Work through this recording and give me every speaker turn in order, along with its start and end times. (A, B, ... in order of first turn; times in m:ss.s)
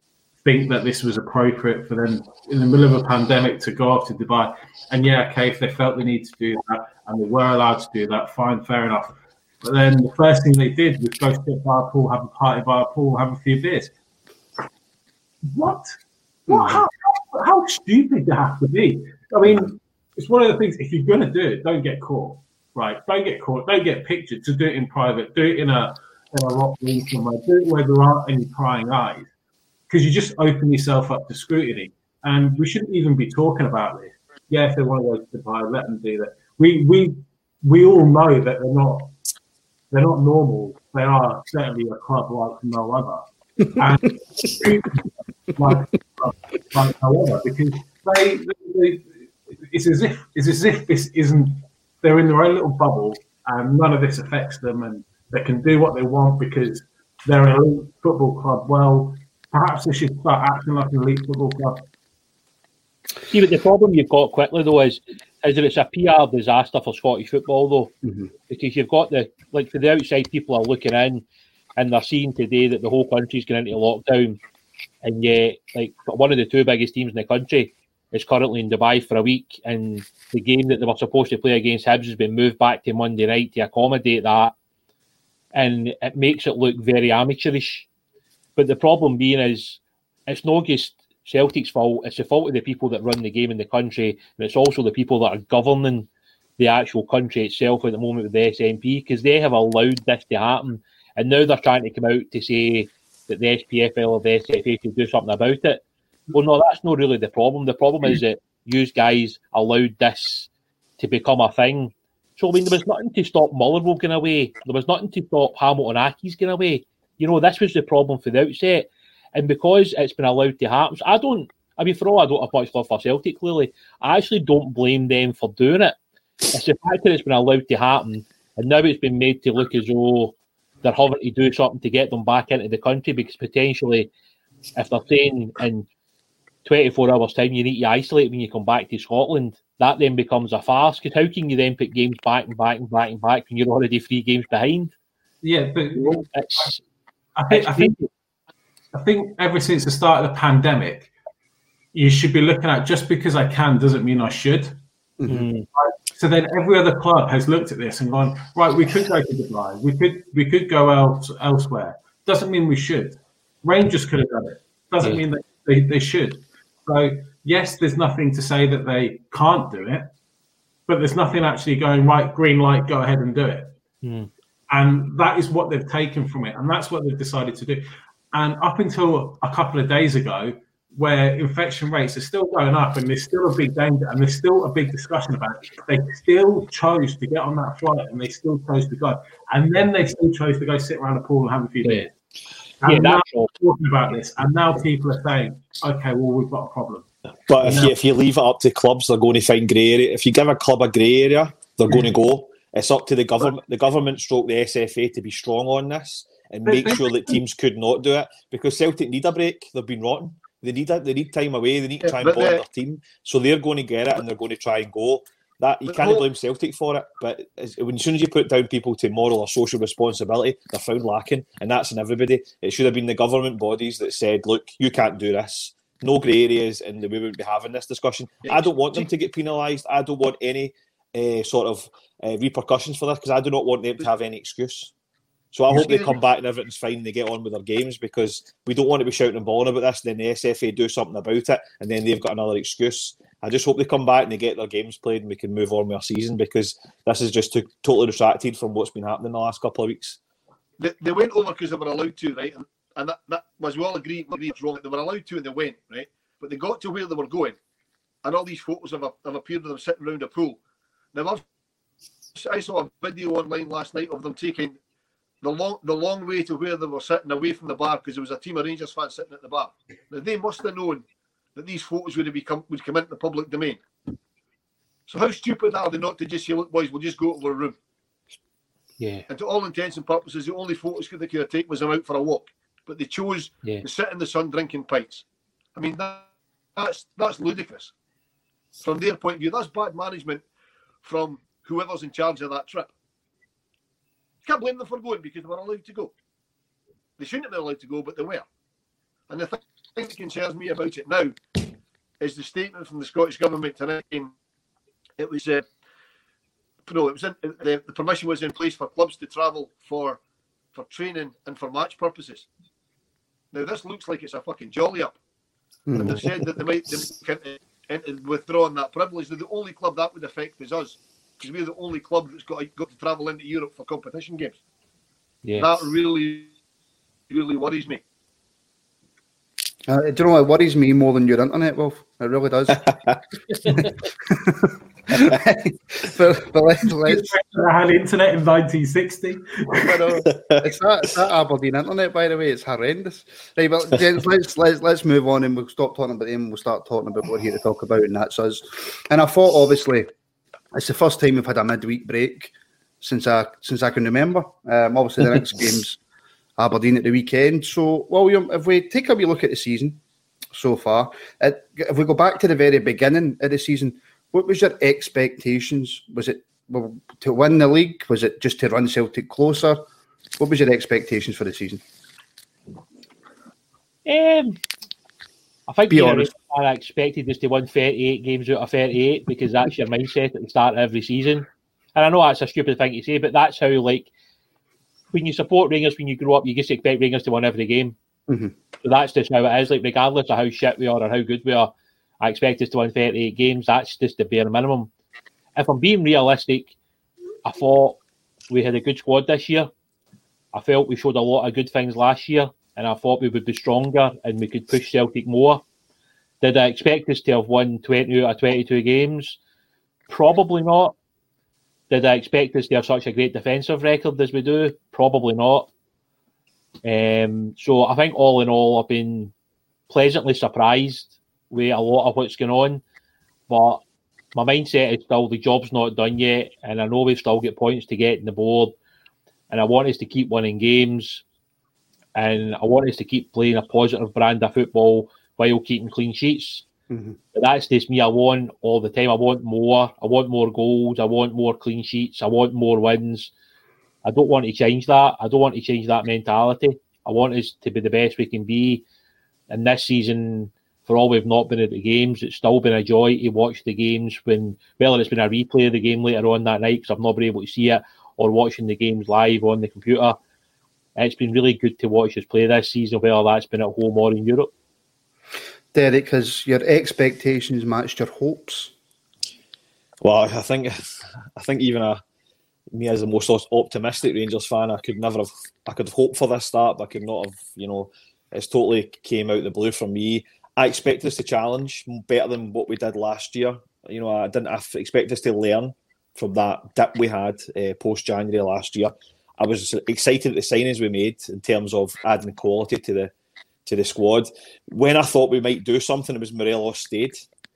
0:00.4-0:13.9 A
0:15.5-0:15.9 A
0:16.5-0:29.3 A
0:16.5-0:16.8 B
0:29.9-0:39.1 A
0:39.9-0:43.2 A
0:43.7-0:49.1 A
0:49.7-1:01.9 A
1:03.3-1:07.9 C
1:08.5-1:11.2 C
1:11.8-1:14.4 C
1:15.0-1:24.5 C
1:25.5-1:27.9 C
1:28.6-1:45.8 C
1:46.3-2:06.0 C
2:06.5-2:14.1 C
2:14.8-2:15.8 C
2:16.6-2:24.9 C
2:25.4-2:26.7 A
2:26.0-2:26.8 C
2:27.4-2:28.0 A
2:27.5-2:28.1 C
2:28.9-2:31.1 A
2:31.9-2:34.8 A
2:35.2-2:35.5 B
2:35.3-2:35.7 C
2:35.8-2:50.1 A
2:50.9-2:53.7 A
2:54.0-2:54.3 C
2:54.7-3:12.1 A
3:12.8-3:17.0 A
3:12.8-3:13.5 C
3:17.5-3:54.9 D
3:17.6-3:17.9 A
3:26.6-3:27.4 A
3:32.0-3:32.6 E
3:35.8-3:36.3 E
3:48.4-3:49.1 E
3:55.5-4:10.2 D
3:55.7-3:56.2 E
4:10.8-4:17.6 E
4:18.2-4:20.6 E
4:21.1-4:21.4 E
4:22.3-4:24.8 E
4:25.4-4:33.8 E
4:35.1-4:37.8 E
4:39.0-4:39.2 C
4:39.3-4:47.9 E
4:48.8-4:50.4 E
4:51.0-4:52.9 E
4:54.4-4:56.1 E
4:57.2-4:58.4 E
4:59.3-5:01.3 E
5:02.2-5:04.3 E
5:05.2-5:05.6 E
5:06.8-5:10.2 E
5:10.7-5:12.5 E
5:13.5-5:15.2 E
5:15.9-5:16.3 B
5:16.0-5:24.6 E
5:25.4-5:25.7 C
5:25.6-5:26.5 E
5:27.3-5:28.0 E
5:29.9-5:33.1 B
5:33.7-5:37.3 B
5:37.0-5:40.1 A
5:39.7-5:50.1 B
5:50.7-5:56.0 B
5:56.6-6:00.0 B
6:00.5-6:09.8 B
6:10.4-6:11.8 B
6:14.0-6:14.6 C
6:15.7-6:24.1 C
6:15.9-6:16.3 B
6:25.1-6:27.9 C
6:28.3-6:28.5 B
6:28.8-6:34.9 C
6:35.6-6:36.7 C
6:37.4-6:38.0 C
6:38.5-6:39.7 C
6:40.5-6:45.6 C
6:46.4-6:49.4 C
6:50.1-6:51.0 C
6:51.9-6:55.7 C
6:56.8-6:59.3 C
6:59.9-7:02.8 C
7:03.5-7:03.8 C
7:04.3-7:08.7 C
7:09.5-7:11.2 C
7:12.1-7:16.6 C
7:16.9-7:17.2 B
7:17.3-7:23.3 C
7:24.0-7:28.8 C
7:29.5-7:40.2 C
7:41.0-7:44.5 C
7:45.7-7:48.7 B
7:50.0-7:50.8 D
7:51.4-7:52.0 D
7:52.7-8:13.1 D
8:13.6-8:17.2 D